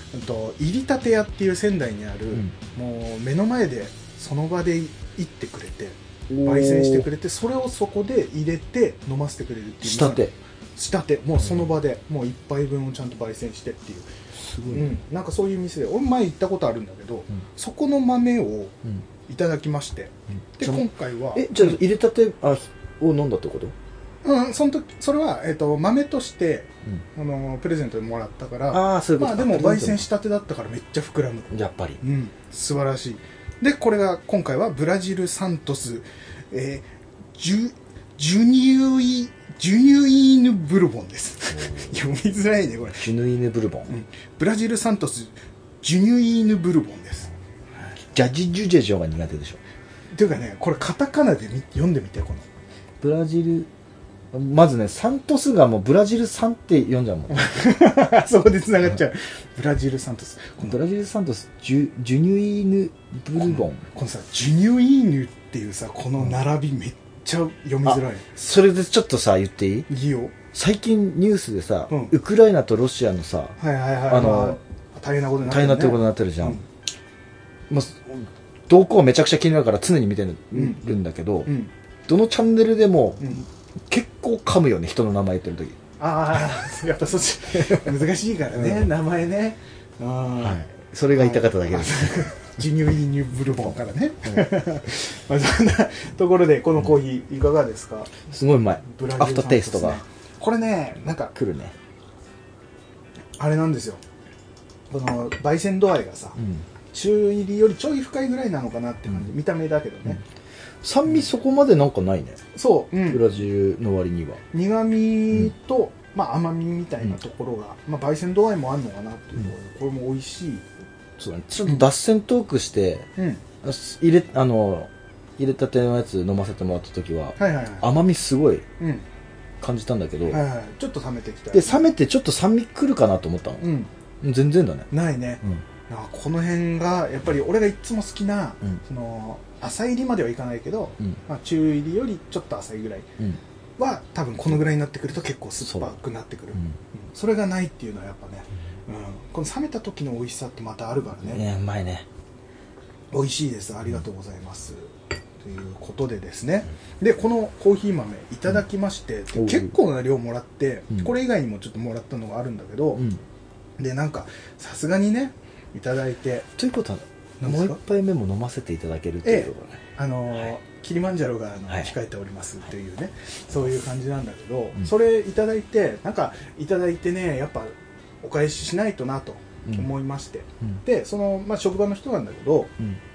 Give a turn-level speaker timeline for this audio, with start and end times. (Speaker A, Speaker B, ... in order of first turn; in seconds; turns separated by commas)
Speaker A: 0.1-14.1, Speaker B: 6.3-7.1, Speaker B: 9.8-10.3, Speaker B: 14.5-15.0, Speaker A: 14.6-18.8, Speaker A: 19.3-21.8, Speaker B: 20.6-23.7, Speaker A: 24.2-36.8, Speaker B: 28.7-30.1, Speaker B: 31.5-32.0, Speaker A: 37.4-43.0, Speaker B: 41.5-42.0, Speaker B: 43.0-43.9, Speaker A: 43.9-47.9, Speaker B: 48.1-49.6, Speaker A: 50.1-52.4, Speaker B: 53.0-53.7, Speaker B: 54.3-57.5, Speaker A: 57.3-60.8, Speaker B: 60.6-63.8, Speaker A: 63.4-68.2, Speaker B: 67.8-69.9, Speaker A: 69.9-70.3, Speaker B: 70.5-74.6, Speaker A: 73.6-76.6, Speaker B: 75.4-76.6, Speaker B: 77.7-81.5, Speaker A: 80.5-80.8, Speaker A: 81.5-81.7, Speaker B: 82.1-85.8, Speaker A: 86.0-90.6, Speaker B: 88.5-88.9, Speaker B: 90.4-92.2, Speaker A: 91.1-98.1, Speaker B: 98.2-100.0, Speaker A: 98.8-101.3, Speaker B: 101.3-101.7, Speaker A: 103.4-104.0, Speaker A: 104.9-106.4, Speaker B: 106.4-106.6, Speaker A: 106.9-110.2, Speaker B: 110.8-112.4, Speaker A: 112.5-113.2, Speaker B: 113.1-114.4, Speaker A: 114.5-120.6, Speaker B: 121.2-123.1, Speaker A: 123.2-123.4, Speaker B: 123.6-128.6, Speaker A: 127.4-127.9, Speaker A: 128.8-129.0, Speaker B: 129.6-130.4, Speaker A: 130.3-131.9, Speaker B: 131.5-133.7, Speaker A: 133.6-133.9, Speaker B: 134.2-134.9, Speaker A: 134.9-143.1, Speaker A: 143.8-151.4, Speaker B: 145.7-145.9, Speaker B: 151.2-152.1, Speaker A: 153.1-163.1, Speaker B: 159.3-159.7, Speaker A: 163.8-166.5, Speaker B: 166.6-169.8, Speaker A: 167.4-167.8, Speaker A: 169.2-182.7